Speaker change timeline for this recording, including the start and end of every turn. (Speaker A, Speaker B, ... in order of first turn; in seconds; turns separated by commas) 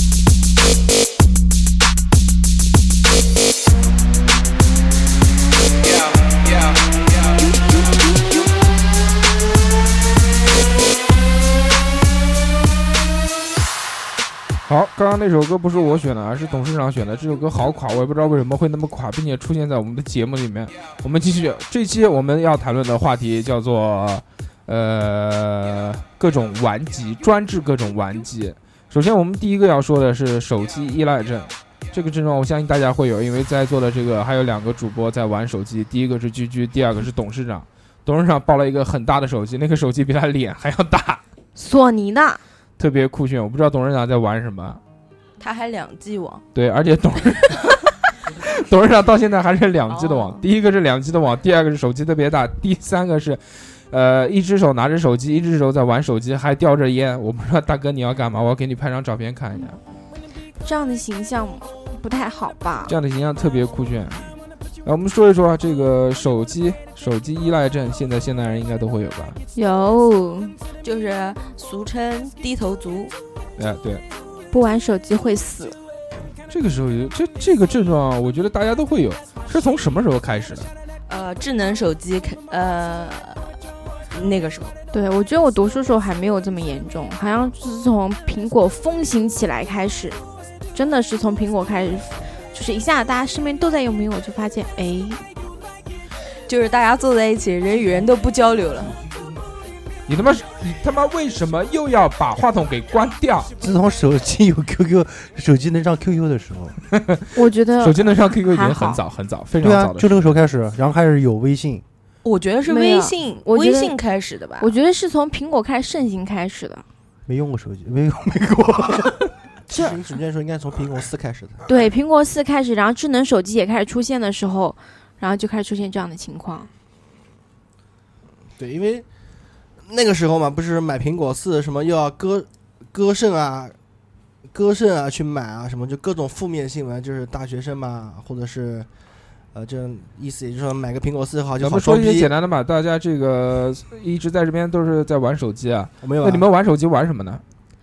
Speaker A: 14.7-41.2, Speaker B: 41.5-42.4, Speaker A: 42.8-44.8, Speaker C: 45.4-46.4, Speaker A: 46.5-47.8, Speaker A: 48.4-59.8, Speaker C: 49.9-50.4, Speaker B: 60.6-62.9, Speaker A: 62.9-64.3, Speaker A: 64.8-69.4, Speaker B: 69.5-70.5, Speaker C: 70.8-73.1, Speaker A: 73.6-74.0, Speaker B: 74.5-75.8, Speaker A: 76.5-80.7, Speaker C: 81.1-83.5, Speaker C: 84.1-84.7, Speaker B: 84.9-90.2, Speaker B: 90.7-95.2, Speaker C: 96.5-99.0, Speaker A: 100.1-103.5, Speaker D: 103.6-106.8, Speaker A: 106.9-107.2, Speaker B: 107.3-109.0, Speaker A: 107.8-110.3, Speaker D: 109.5-111.8, Speaker C: 112.2-114.7, Speaker B: 112.7-113.9, Speaker B: 114.6-116.8, Speaker D: 117.3-119.2, Speaker E: 119.7-121.6, Speaker B: 121.7-126.7, Speaker E: 128.6-129.1, Speaker E: 129.8-133.8, Speaker E: 134.5-138.9, Speaker E: 139.5-142.3, Speaker A: 141.6-147.4, Speaker E: 146.0-146.4